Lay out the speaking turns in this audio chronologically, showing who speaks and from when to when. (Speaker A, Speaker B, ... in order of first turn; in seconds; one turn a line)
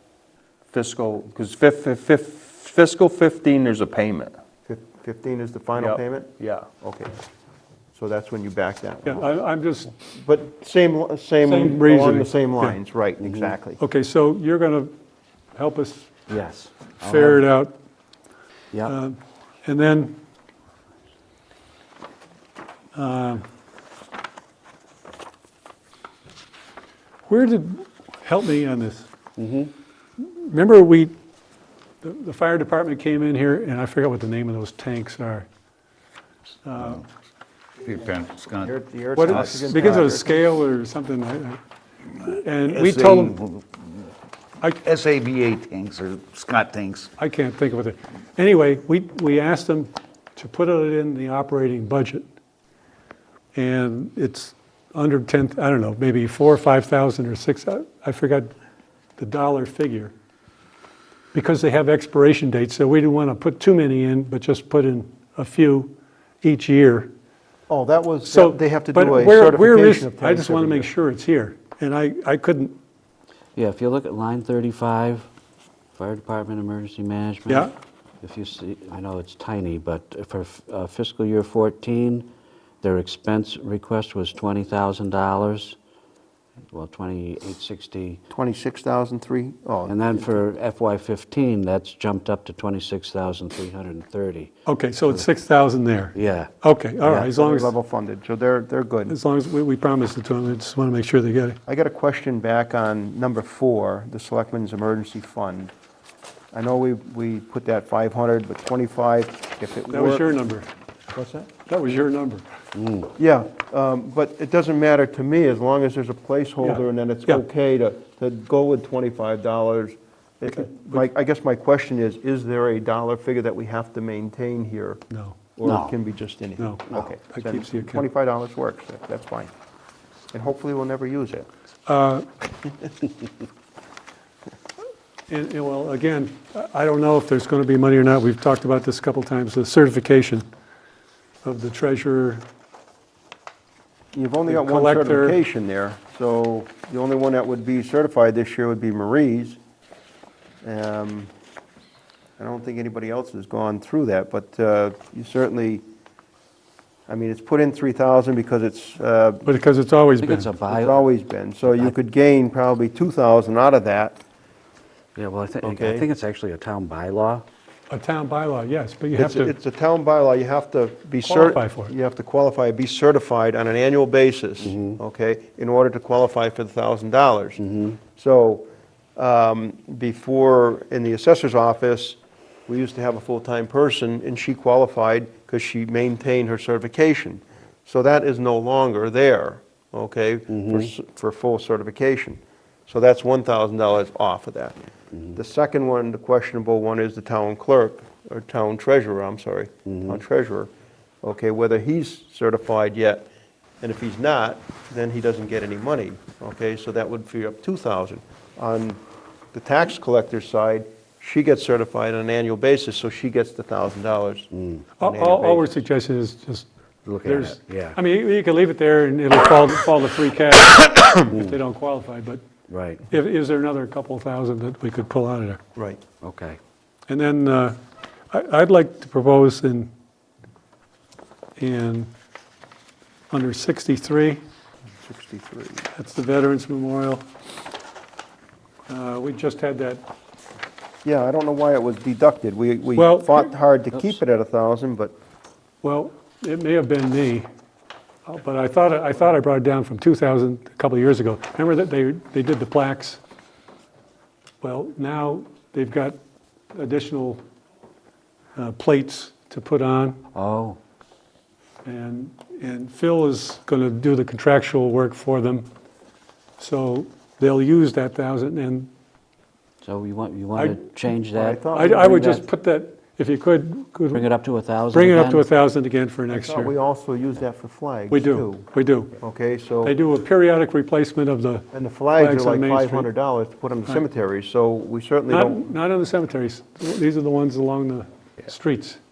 Speaker A: 0.7-4.4
Speaker B: 4.7-7.1
Speaker A: 5.8-6.7
Speaker B: 7.9-9.2
Speaker C: 9.0-9.9
Speaker B: 10.1-13.8
Speaker C: 11.4-12.8
Speaker D: 13.2-13.5
Speaker C: 13.8-14.9
Speaker C: 15.5-16.1
Speaker D: 16.3-17.4
Speaker C: 17.0-17.7
Speaker C: 18.9-20.2
Speaker C: 22.9-23.4
Speaker C: 27.2-29.1
Speaker D: 29.4-29.7
Speaker C: 30.2-31.1
Speaker C: 32.0-35.5
Speaker C: 36.6-37.0
Speaker E: 37.8-38.7
Speaker B: 38.6-40.4
Speaker C: 39.2-41.6
Speaker E: 39.3-39.8
Speaker C: 42.2-43.4
Speaker E: 42.6-43.7
Speaker E: 44.7-47.1
Speaker C: 47.2-52.3
Speaker C: 53.5-58.5
Speaker C: 59.2-60.1
Speaker C: 61.3-67.1
Speaker B: 67.7-70.9
Speaker C: 68.3-72.8
Speaker D: 73.5-75.3
Speaker D: 75.9-77.7
Speaker D: 78.2-82.3
Speaker D: 82.8-85.8
Speaker D: 86.7-88.2
Speaker B: 88.3-90.4
Speaker D: 89.9-94.5
Speaker C: 94.7-97.7
Speaker D: 96.1-97.3
Speaker B: 97.2-99.2
Speaker C: 99.1-101.6
Speaker B: 101.7-105.7
Speaker B: 106.5-110.2
Speaker C: 109.9-110.7
Speaker B: 111.1-111.5
Speaker C: 111.7-112.4
Speaker D: 112.7-113.1
Speaker B: 113.2-125.0
Speaker C: 116.6-117.4
Speaker C: 120.5-121.0
Speaker C: 125.1-125.4
Speaker B: 125.5-129.5
Speaker D: 125.6-125.9
Speaker C: 126.6-128.0
Speaker D: 126.9-127.2
Speaker B: 130.3-131.4
Speaker C: 131.9-132.3
Speaker C: 135.3-140.4
Speaker C: 141.4-142.4
Speaker B: 144.1-149.6
Speaker C: 144.5-145.4
Speaker B: 150.6-151.3
Speaker B: 152.4-155.8
Speaker B: 157.1-159.5
Speaker C: 159.4-160.5
Speaker D: 160.2-161.1
Speaker B: 160.7-164.2
Speaker D: 165.1-167.4
Speaker B: 165.6-166.1
Speaker C: 167.9-169.5
Speaker B: 169.2-177.6
Speaker C: 171.2-171.9
Speaker D: 174.6-175.0
Speaker D: 177.6-178.0
Speaker B: 178.2-194.8
Speaker D: 190.5-190.9
Speaker B: 195.3-200.7
Speaker D: 199.8-200.2
Speaker B: 201.2-203.3
Speaker B: 203.8-209.0
Speaker B: 209.5-215.7
Speaker D: 214.5-214.8
Speaker C: 215.0-216.7
Speaker D: 217.1-218.0
Speaker C: 217.2-222.4
Speaker D: 221.3-221.6
Speaker D: 222.7-223.1
Speaker C: 223.1-225.6
Speaker B: 225.8-226.0
Speaker D: 226.2-226.6
Speaker C: 227.1-227.8
Speaker C: 228.3-229.9
Speaker C: 231.6-232.1
Speaker C: 233.3-234.4
Speaker B: 235.0-235.9
Speaker C: 235.9-237.2
Speaker C: 238.9-240.0
Speaker B: 241.0-245.1
Speaker C: 242.9-243.5
Speaker D: 243.9-244.2
Speaker C: 245.8-247.5
Speaker C: 248.2-253.2
Speaker C: 254.6-256.2
Speaker C: 256.7-257.4
Speaker C: 258.6-260.2
Speaker D: 260.3-260.8
Speaker C: 261.8-265.7
Speaker C: 266.6-268.9
Speaker D: 269.8-272.4
Speaker B: 271.3-272.4
Speaker C: 271.7-274.2
Speaker D: 274.1-275.4
Speaker C: 274.9-276.7
Speaker B: 276.3-278.7
Speaker C: 278.1-279.2
Speaker B: 279.2-279.9
Speaker C: 279.8-283.1
Speaker B: 281.7-285.7
Speaker C: 285.3-289.0